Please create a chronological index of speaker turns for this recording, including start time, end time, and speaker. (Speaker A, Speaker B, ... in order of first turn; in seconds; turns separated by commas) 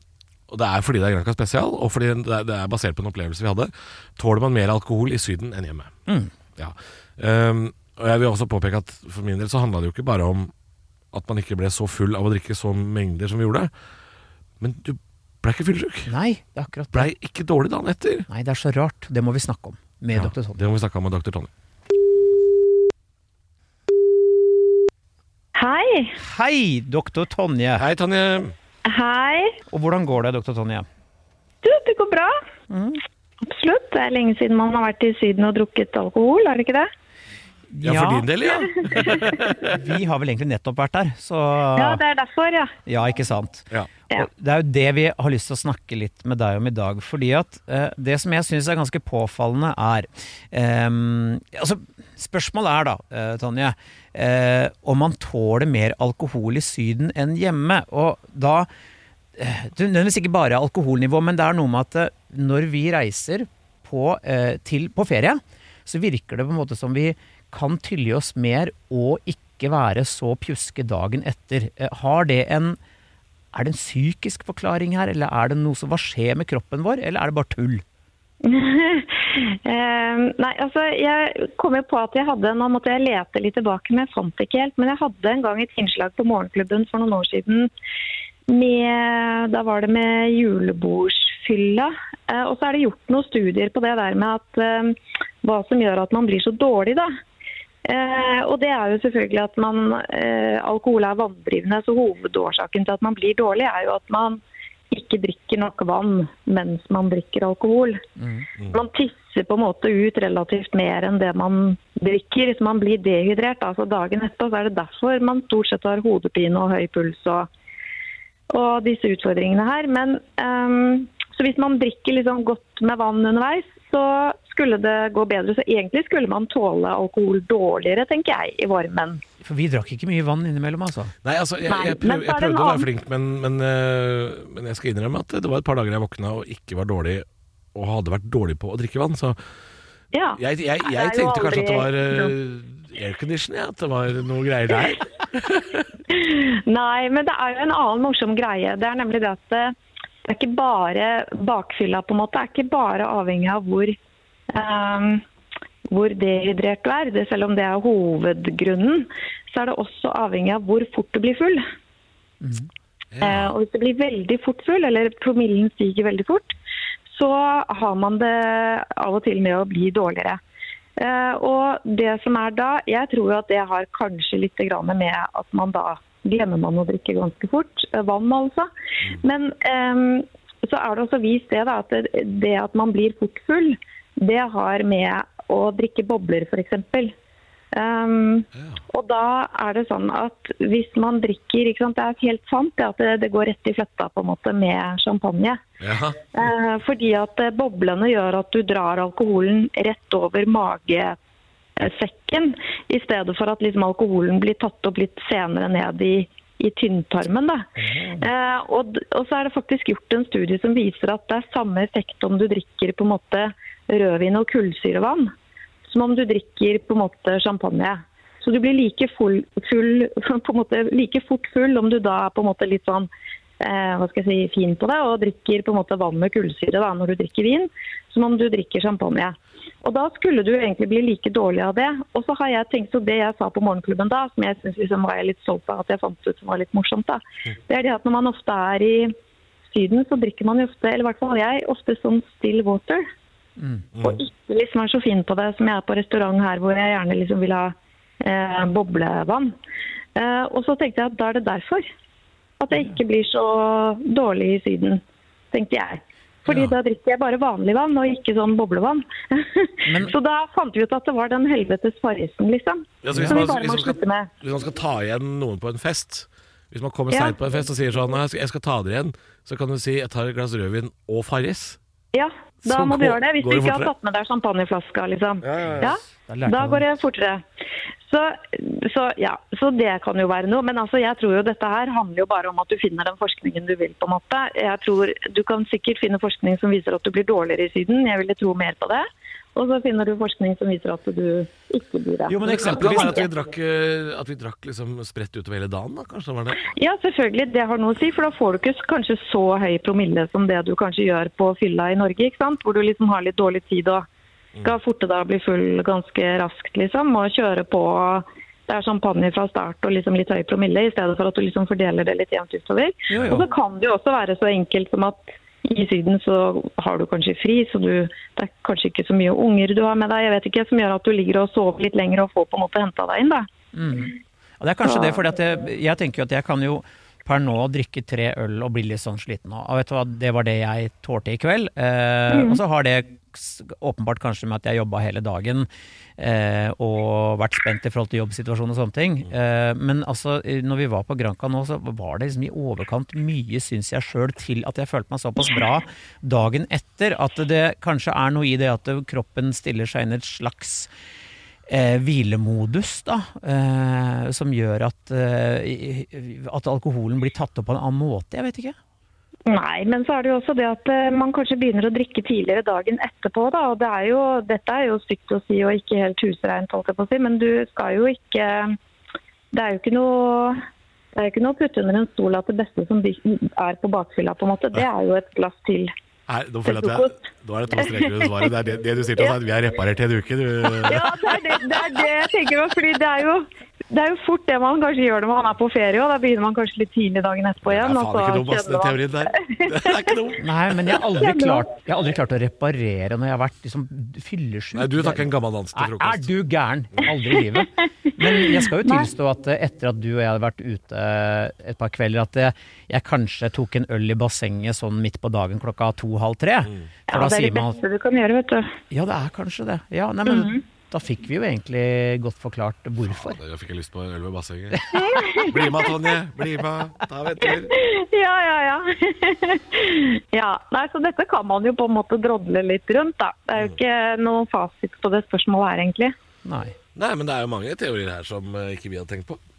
Speaker A: 0.5-5.9, Speaker B: 6.1-6.3, Speaker A: 6.6-10.5, Speaker A: 11.1-13.7, Speaker A: 14.6-16.1, Speaker B: 16.1-17.1, Speaker A: 16.9-18.3, Speaker B: 18.3-20.6, Speaker A: 20.1-21.5, Speaker C: 25.6-26.2, Speaker B: 26.2-27.8, Speaker A: 27.8-28.6, Speaker C: 28.9-29.6, Speaker B: 29.7-30.9, Speaker C: 31.6-32.4, Speaker B: 32.7-33.0, Speaker C: 33.4-36.9, Speaker B: 37.7-38.3, Speaker A: 37.8-39.8, Speaker B: 39.0-42.0, Speaker C: 41.8-42.7, Speaker B: 42.9-58.7, Speaker B: 59.4-72.8, Speaker B: 73.5-77.8, Speaker C: 78.4-87.7, Speaker C: 88.5-97.1, Speaker C: 97.8-104.4, Speaker C: 104.9-108.0, Speaker B: 108.2-108.5, Speaker C: 108.7-117.5, Speaker C: 118.5-129.2, Speaker B: 129.4-131.1, Speaker A: 131.2-139.4, Speaker C: 131.7-132.9, Speaker C: 140.1-142.3, Speaker A: 140.4-145.9, Speaker C: 146.1-154.0, Speaker C: 154.5-155.2, Speaker C: 155.9-161.6, Speaker B: 162.4-162.7, Speaker A: 163.1-163.5, Speaker C: 163.2-166.6, Speaker C: 167.1-170.4, Speaker C: 171.0-178.7, Speaker C: 179.2-187.1, Speaker C: 187.7-195.6, Speaker A: 188.6-188.8, Speaker A: 195.8-196.3, Speaker C: 196.3-201.2, Speaker C: 201.8-207.7, Speaker B: 207.8-208.3, Speaker C: 208.2-215.3, Speaker C: 215.8-239.1, Speaker C: 239.7-243.1, Speaker B: 243.6-243.8, Speaker A: 243.9-244.2, Speaker C: 244.0-249.5, Speaker C: 250.2-251.9, Speaker C: 252.6-264.3, Speaker B: 259.9-260.1, Speaker A: 263.0-271.8, Speaker B: 263.1-263.4, Speaker C: 267.1-267.4, Speaker C: 272.1-277.4, Speaker A: 272.6-273.9, Speaker A: 275.4-275.9, Speaker B: 276.3-276.9, Speaker C: 278.1-293.3, Speaker B: 292.3-293.2, Speaker A: 292.5-296.7, Speaker C: 296.7-304.1, Speaker C: 304.6-323.5, Speaker B: 313.1-313.4, Speaker A: 313.1-313.4, Speaker B: 323.7-350.9, Speaker C: 324.9-325.1, Speaker C: 332.3-332.6, Speaker B: 351.7-358.8, Speaker C: 359.5-368.8, Speaker C: 369.5-370.6, Speaker C: 371.1-375.9, Speaker A: 376.3-381.3, Speaker C: 376.7-377.1, Speaker C: 377.9-378.4, Speaker C: 380.8-390.2, Speaker A: 387.6-390.4, Speaker B: 390.4-407.8, Speaker C: 391.1-391.7, Speaker A: 394.8-396.3, Speaker C: 398.4-399.1, Speaker C: 407.1-408.8, Speaker B: 408.9-413.4, Speaker C: 410.3-410.6, Speaker A: 413.1-417.7, Speaker C: 414.9-415.9, Speaker C: 417.4-426.1, Speaker B: 426.4-426.8, Speaker A: 427.0-429.4